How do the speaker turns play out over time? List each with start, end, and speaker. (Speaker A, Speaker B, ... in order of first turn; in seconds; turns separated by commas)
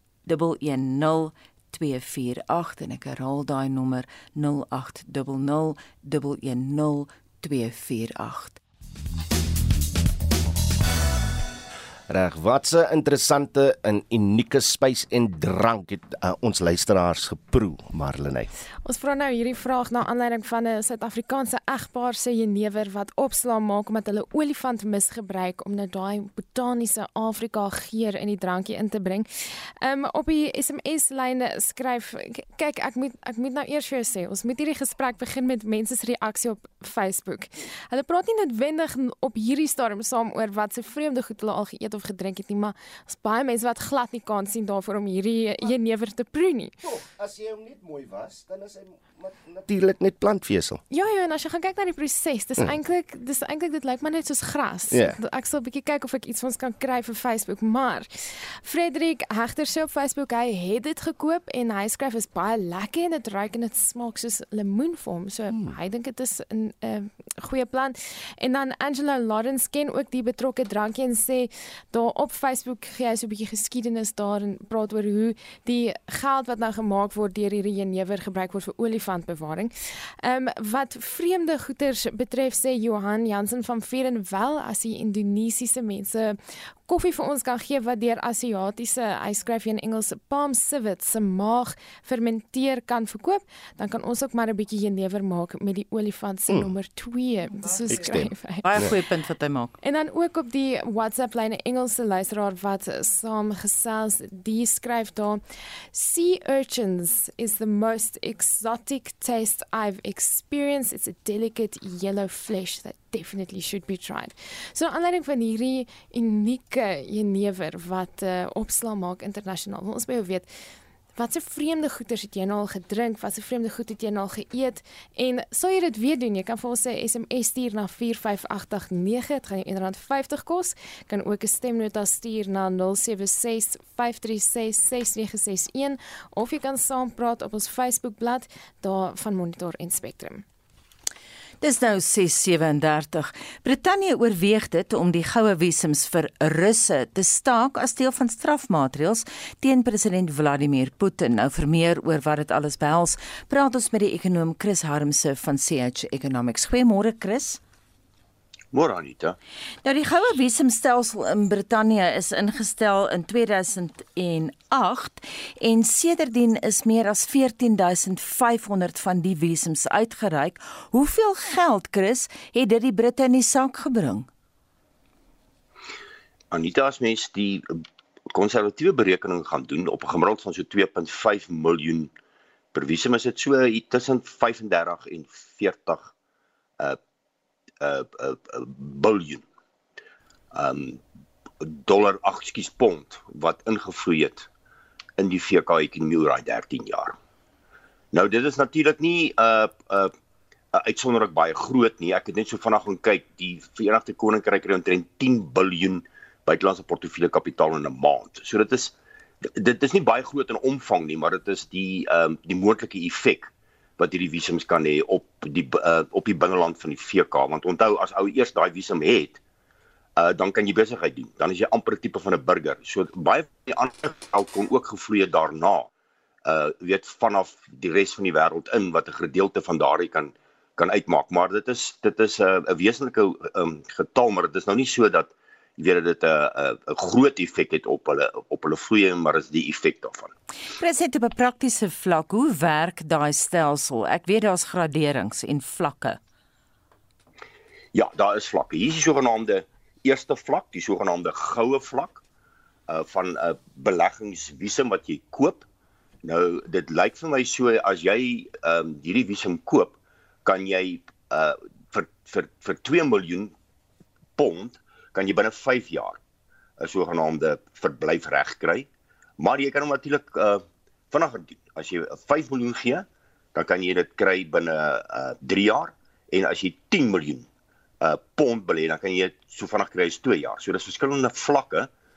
Speaker A: 0.2-8.6, Speaker B: 12.1-18.5, Speaker C: 18.8-29.3, Speaker C: 29.8-46.8, Speaker B: 46.8-50.8, Speaker C: 50.9-58.1, Speaker B: 54.9-55.2, Speaker C: 58.6-98.6, Speaker B: 65.5-65.8, Speaker B: 97.9-98.9, Speaker A: 98.6-99.7, Speaker C: 99.8-105.4, Speaker C: 105.9-120.5, Speaker C: 121.1-140.4, Speaker A: 141.6-157.6, Speaker D: 158.7-159.4, Speaker A: 159.8-174.3, Speaker D: 176.5-177.7, Speaker D: 178.3-182.1, Speaker D: 182.7-186.1, Speaker D: 187.8-189.4, Speaker D: 190.5-191.0, Speaker D: 191.6-194.5, Speaker D: 195.2-197.2, Speaker D: 198.1-200.1, Speaker D: 200.7-219.4, Speaker D: 220.2-225.9, Speaker D: 226.4-240.3, Speaker A: 240.8-246.2, Speaker D: 247.9-252.2, Speaker D: 252.9-255.6, Speaker D: 256.2-263.5, Speaker D: 264.4-266.2, Speaker D: 266.8-268.9, Speaker D: 269.4-277.5, Speaker D: 278.0-281.9